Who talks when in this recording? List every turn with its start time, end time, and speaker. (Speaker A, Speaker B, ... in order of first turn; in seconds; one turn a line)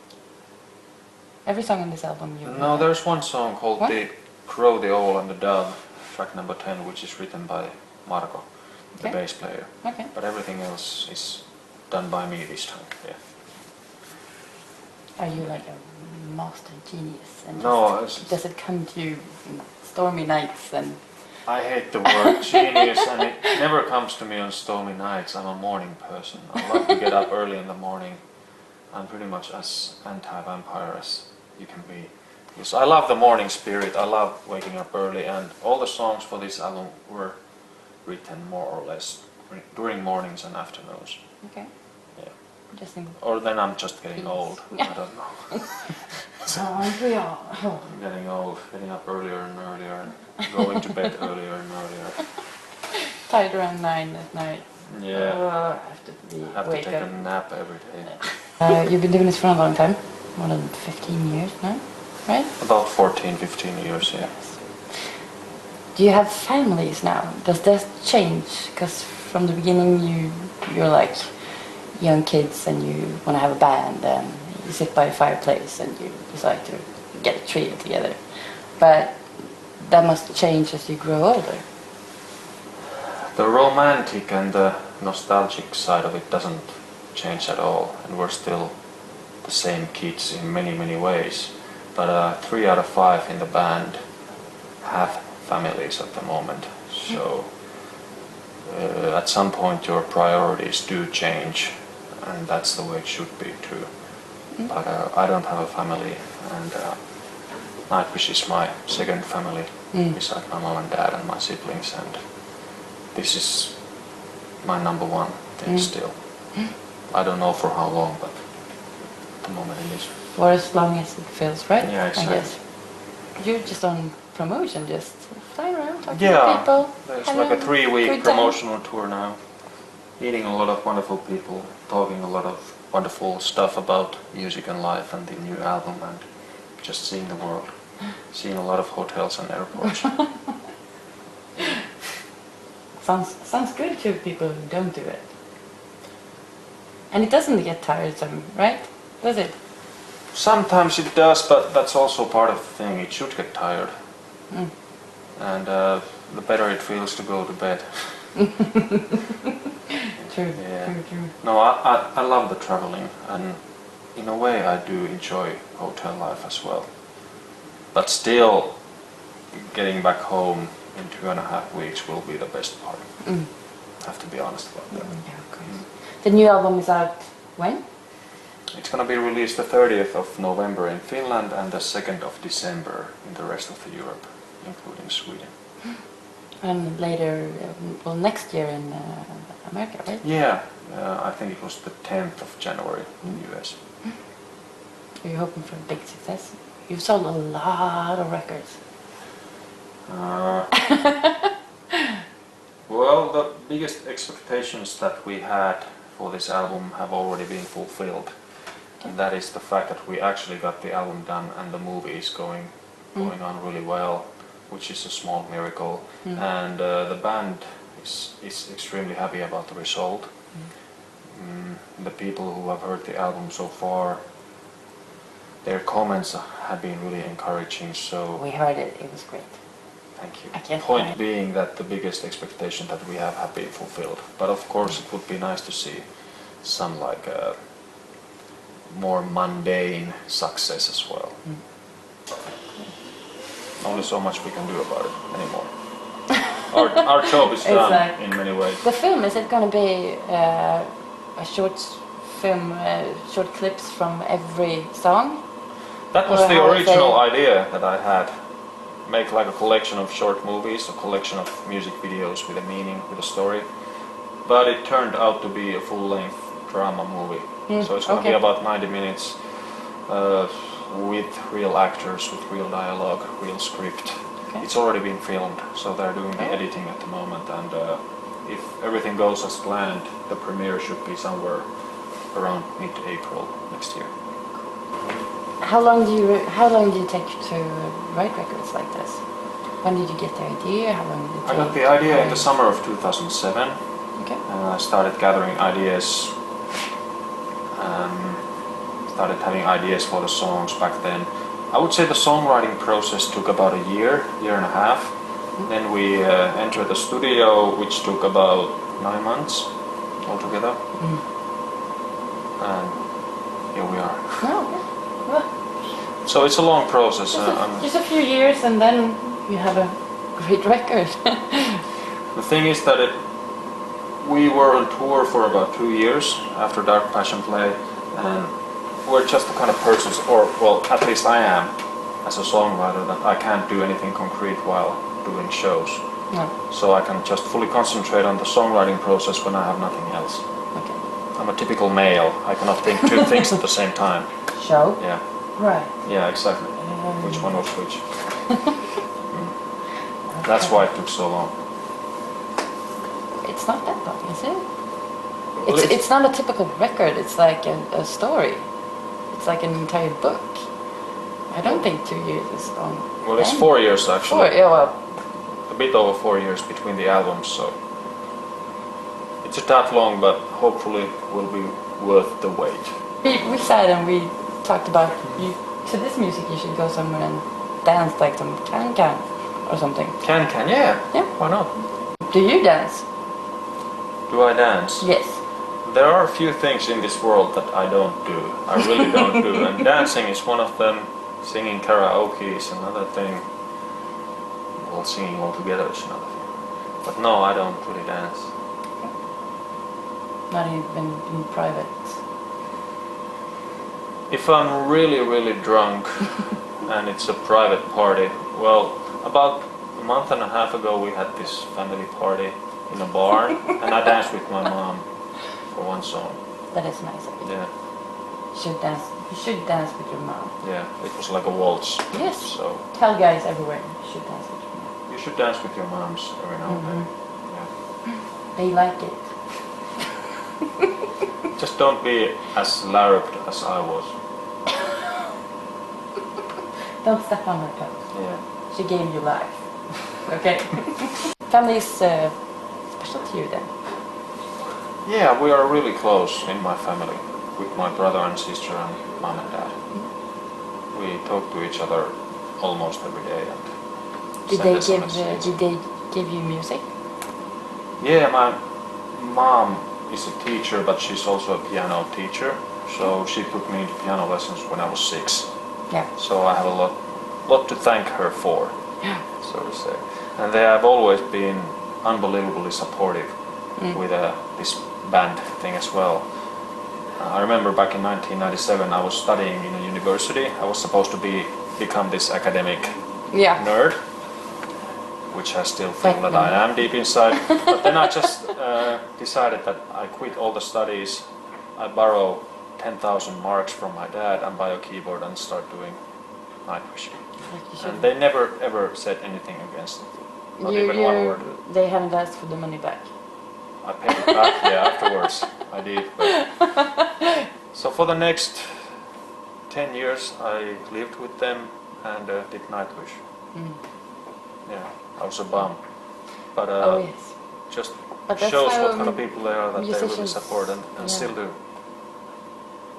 Speaker A: 1.4-3.9
Speaker B: 2.4-13.2
Speaker A: 8.9-10.1
Speaker A: 15.2-21.6
Speaker B: 17.5-18.4
Speaker B: 21.4-41.5
Speaker A: 41.4-41.7
Speaker B: 42.1-46.6
Speaker A: 42.7-43.5
Speaker A: 44.2-45.3
Speaker A: 46.5-47.8
Speaker B: 47.8-52.6
Speaker A: 53.2-62.5
Speaker B: 54.9-55.7
Speaker B: 56.5-58.6
Speaker B: 62.6-64.4
Speaker A: 64.1-65.2
Speaker A: 65.9-81.7
Speaker B: 83.3-98.1
Speaker B: 98.7-120.2
Speaker A: 109.9-110.2
Speaker A: 115.6-116.6
Speaker A: 120.3-128.6
Speaker B: 121.8-122.6
Speaker B: 126.1-140.4
Speaker A: 142.9-145.3
Speaker A: 147.1-149.6
Speaker B: 150.3-153.9
Speaker B: 155.3-158.5
Speaker B: 160.2-175.8
Speaker A: 160.2-161.3
Speaker A: 173.2-173.5
Speaker A: 174.9-177.9
Speaker B: 178.7-185.5
Speaker A: 186.6-190.2
Speaker B: 190.2-193.8
Speaker A: 193.2-194.2
Speaker A: 195.2-198.8
Speaker B: 200.1-200.9
Speaker B: 202.8-220.7
Speaker B: 221.3-224.2
Speaker B: 225.6-228.4
Speaker A: 228.3-231.1
Speaker B: 230.1-238.2
Speaker B: 238.8-241.5
Speaker A: 241.4-241.9
Speaker B: 243.8-248.8
Speaker A: 247.6-257.2
Speaker B: 256.1-284.1
Speaker A: 267.7-268.4
Speaker A: 285.6-292.5
Speaker B: 291.4-296.4
Speaker A: 294.1-294.4
Speaker B: 297.7-310.8
Speaker A: 310.9-311.2
Speaker B: 312.6-314.8
Speaker A: 314.4-315.9
Speaker B: 316.1-317.9
Speaker A: 317.3-321.8
Speaker B: 322.3-351.6
Speaker A: 340.7-341.0
Speaker A: 344.5-346.1
Speaker A: 346.7-348.5
Speaker A: 350.2-350.9
Speaker A: 353.4-365.0
Speaker B: 355.5-356.0
Speaker B: 363.2-367.8
Speaker B: 369.4-373.0
Speaker A: 373.2-380.6
Speaker B: 375.2-375.5
Speaker B: 380.2-381.9
Speaker A: 381.1-383.1
Speaker B: 384.3-394.0
Speaker A: 385.0-385.4
Speaker B: 394.8-398.6
Speaker A: 400.5-402.2
Speaker B: 404.3-416.7
Speaker A: 416.7-420.6
Speaker B: 417.4-417.7
Speaker B: 420.6-422.8
Speaker A: 422.1-424.9
Speaker B: 425.1-427.7
Speaker A: 426.6-427.5
Speaker A: 428.3-429.9
Speaker B: 431.6-434.2
Speaker A: 437.0-443.9
Speaker B: 438.1-438.4
Speaker B: 445.0-450.0
Speaker B: 450.9-455.6
Speaker A: 454.5-456.9
Speaker B: 458.0-484.2
Speaker A: 483.3-483.7
Speaker B: 485.3-501.6
Speaker A: 486.0-487.7
Speaker A: 497.4-498.1
Speaker A: 500.6-503.5
Speaker B: 503.8-507.0
Speaker B: 507.7-509.1
Speaker B: 509.7-513.3
Speaker A: 513.5-513.8
Speaker B: 514.6-521.6
Speaker A: 516.8-517.7
Speaker A: 518.2-521.3